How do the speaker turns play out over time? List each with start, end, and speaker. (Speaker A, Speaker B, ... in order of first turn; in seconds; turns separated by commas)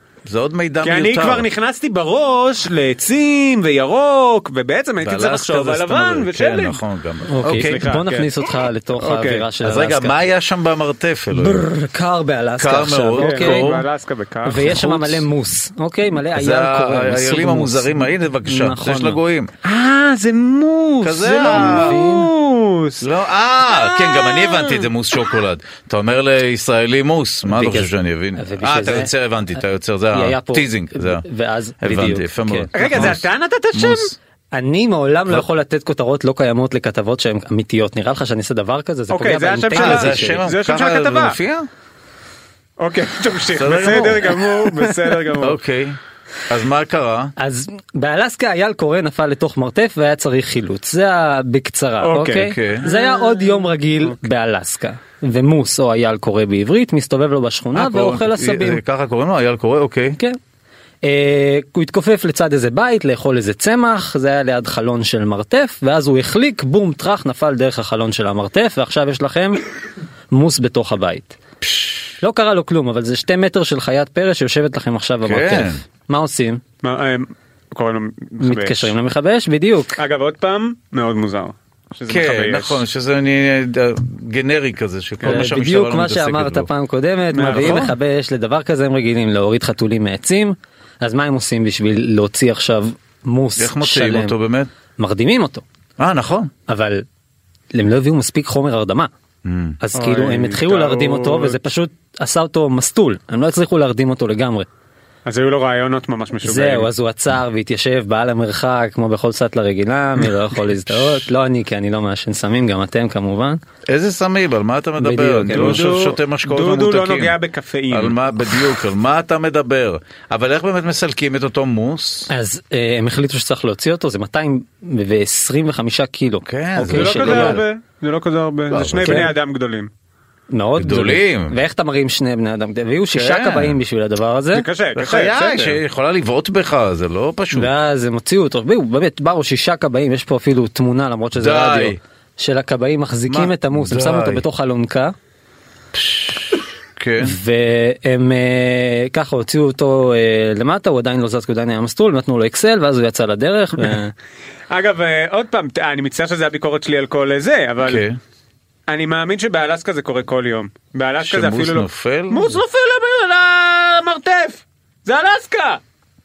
Speaker A: 0.2-1.5, Speaker B: 0.8-6.8, Speaker A: 5.0-7.8, Speaker C: 7.3-10.2, Speaker B: 7.4-8.3, Speaker B: 8.9-9.5, Speaker A: 9.6-11.6, Speaker C: 11.3-13.7, Speaker A: 12.6-13.8, Speaker B: 13.2-14.7, Speaker C: 14.4-19.2, Speaker A: 14.7-15.2, Speaker A: 16.3-19.5, Speaker B: 19.6-23.1, Speaker A: 21.0-22.0, Speaker C: 21.5-22.3, Speaker A: 23.0-31.2, Speaker B: 23.7-24.9, Speaker C: 27.4-29.1, Speaker C: 30.1-33.2, Speaker A: 31.8-34.1, Speaker B: 32.7-34.1, Speaker C: 34.5-40.4, Speaker B: 39.1-41.4, Speaker A: 39.7-41.7, Speaker B: 42.8-45.6, Speaker A: 43.5-44.6, Speaker A: 45.4-47.3, Speaker C: 47.4-58.8, Speaker B: 52.0-53.5, Speaker A: 52.4-52.9, Speaker A: 57.7-60.2, Speaker C: 61.0-69.6, Speaker C: 70.3-71.4, Speaker A: 71.6-72.1, Speaker C: 72.2-76.6, Speaker A: 75.2-75.8, Speaker B: 76.8-78.9, Speaker C: 78.4-80.0, Speaker B: 80.0-82.8, Speaker A: 82.1-86.7, Speaker B: 85.2-85.5, Speaker C: 85.2-94.3, Speaker B: 87.3-87.9, Speaker A: 87.5-87.9, Speaker A: 93.6-94.7, Speaker C: 95.0-95.6, Speaker A: 96.0-96.5, Speaker C: 96.7-97.0, Speaker C: 97.7-99.1, Speaker A: 99.4-99.8, Speaker C: 99.8-104.7, Speaker B: 99.9-101.6, Speaker B: 105.2-106.9, Speaker C: 106.4-113.6, Speaker B: 110.2-111.2, Speaker A: 113.9-117.3, Speaker C: 115.0-115.8, Speaker B: 115.5-118.7, Speaker A: 117.9-122.3, Speaker C: 122.3-127.6, Speaker A: 126.4-127.6, Speaker B: 126.9-129.9, Speaker A: 128.7-129.3, Speaker C: 129.0-129.3, Speaker C: 130.5-134.7, Speaker A: 130.8-131.6, Speaker A: 133.1-133.8, Speaker B: 134.5-135.8, Speaker A: 134.9-137.7, Speaker C: 137.5-145.1, Speaker A: 141.4-142.0, Speaker A: 143.3-144.4, Speaker A: 145.9-147.4, Speaker C: 147.2-154.1, Speaker B: 154.7-158.0, Speaker A: 157.8-158.2, Speaker B: 158.9-165.8, Speaker A: 161.2-162.6